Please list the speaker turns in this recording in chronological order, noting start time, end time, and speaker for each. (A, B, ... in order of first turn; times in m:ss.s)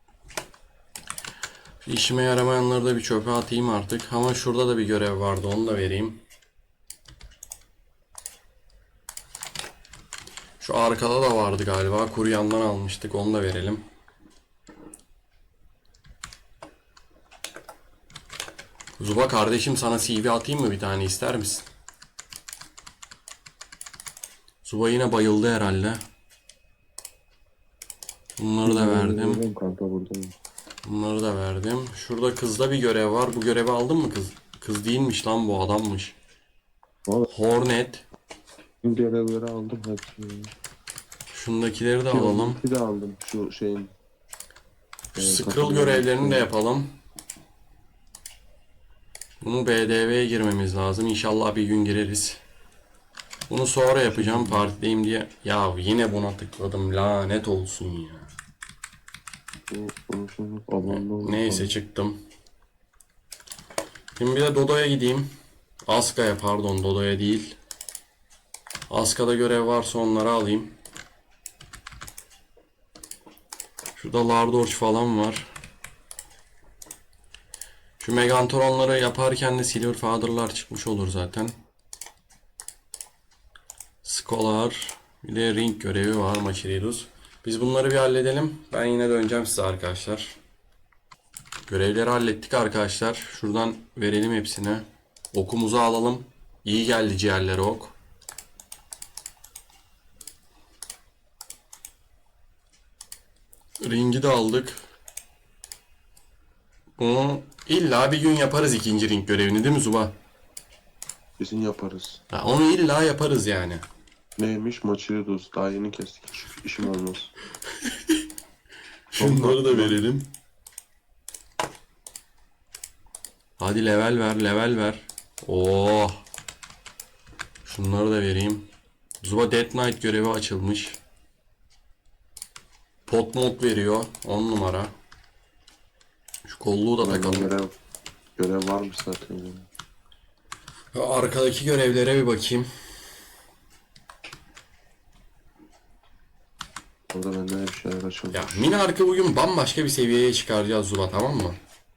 0:01.8-0:06.2 A
0:10.6-0:13.8 A
0:19.0-0:21.7 A
0:24.6-0:26.0 A
0:28.4-0:29.4 A
0:28.6-0:30.3 B
0:30.8-0:36.2 A
0:37.3-0:38.0 A
0:38.8-0:40.5 B
0:41.3-0:42.6 A
0:42.1-0:43.9 B
0:45.1-0:46.9 A
0:45.2-0:46.5 B
0:49.4-0:52.4 A
0:53.5-0:58.3 A
0:54.1-0:54.6 B
0:59.7-1:01.7 B
1:00.8-1:02.2 A
1:04.1-1:05.3 A
1:05.9-1:07.6 A
1:08.9-1:10.7 A
1:14.0-1:15.5 A
1:18.0-1:21.6 A
1:24.0-1:30.4 A
1:31.7-1:37.9 A
1:43.8-1:44.8 A
1:47.0-1:50.1 A
1:51.4-1:52.2 B
1:52.3-1:53.8 A
1:54.4-1:57.3 B
1:57.8-1:58.2 A
1:59.1-2:00.3 A
1:59.2-2:00.0 B
2:03.6-2:06.2 A
2:07.6-2:08.7 A
2:09.2-2:11.0 A
2:13.1-2:14.9 A
2:16.5-2:17.5 A
2:17.0-2:17.7 B
2:18.4-2:19.7 B
2:20.9-2:22.7 A
2:27.1-2:28.7 B
2:28.3-2:31.6 A